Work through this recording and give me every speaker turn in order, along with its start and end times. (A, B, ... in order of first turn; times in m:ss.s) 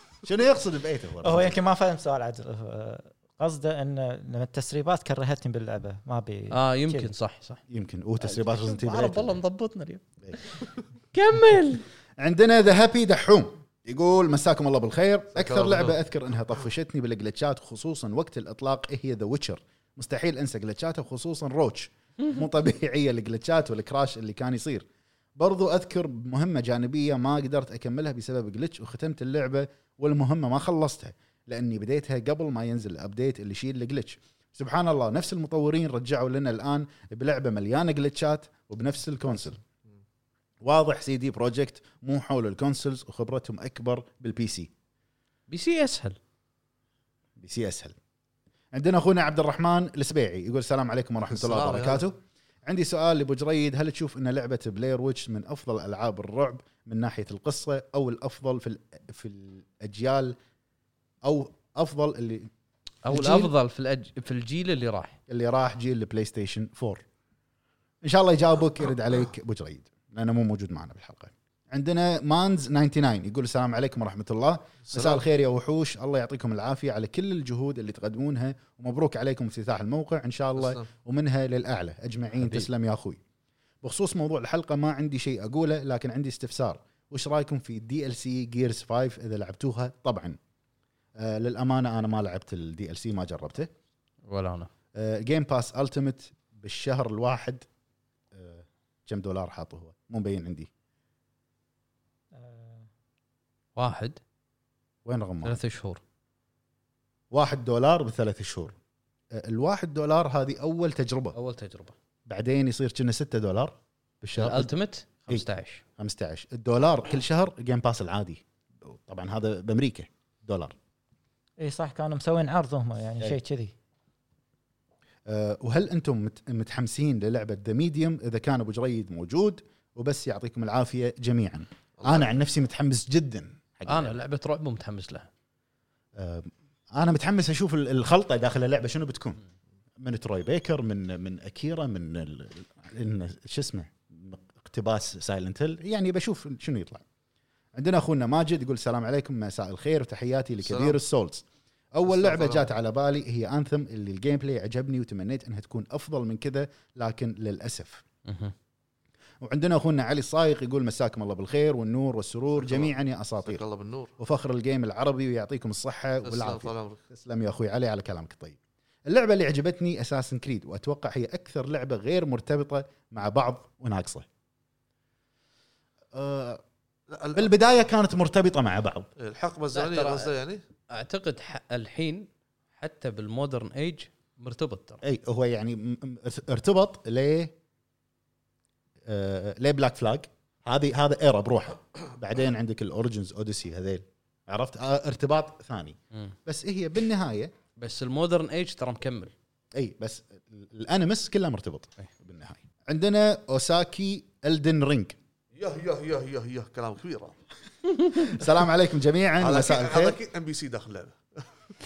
0:00.2-0:01.6 A
0:01.2-0:07.1 B
0:06.5-0:07.6 C
0:07.7-0:09.4 A
0:08.2-0:11.8 C
0:12.2-0:39.6 A
0:15.3-0:16.0 D
0:40.6-0:44.7 A
0:45.5-0:46.2 C
0:47.4-0:48.0 A
0:48.7-1:00.4 A
0:51.3-0:52.0 D
1:01.2-1:02.5 A
1:03.0-1:05.2 C
1:03.1-1:03.5 A
1:05.3-1:07.0 A
1:08.0-1:23.2 A
1:14.8-1:15.2 D
1:20.6-1:20.9 D
1:22.4-1:22.7 C
1:23.8-1:30.4 A
1:31.2-1:33.7 A
1:34.3-1:34.7 C
1:35.0-1:37.7 A
1:38.3-1:40.7 A
1:42.4-1:42.9 B
1:43.8-1:44.2 C
1:45.0-1:45.6 A
1:45.4-1:46.0 C
1:47.3-1:48.8 A
1:49.3-1:51.4 A
1:51.3-1:51.9 C
1:52.3-1:54.7 A
1:54.4-1:55.8 C
1:56.0-2:00.7 A
2:01.6-2:03.7 B
2:05.3-2:14.2 A
2:12.0-2:12.3 D
2:13.9-2:15.3 C
2:16.2-2:19.4 A
2:20.0-2:27.0 A
2:27.8-2:38.0 A
2:30.6-2:31.0 D
2:32.1-2:32.7 D
2:38.2-2:38.5 C
2:39.4-2:43.6 A
2:42.6-2:44.1 D
2:44.2-2:54.3 A
2:46.2-2:47.0 D
2:56.1-2:56.6 A
2:57.1-2:57.5 D
2:57.3-2:59.1 A
2:59.2-3:00.6 D
2:59.7-3:00.3 C
3:00.9-3:05.0 C
3:05.0-3:07.5 A
3:09.1-3:17.5 A
3:17.8-3:19.3 C
3:19.8-3:25.2 A
3:25.6-3:27.4 D
3:28.0-3:30.2 A
3:29.4-3:31.4 D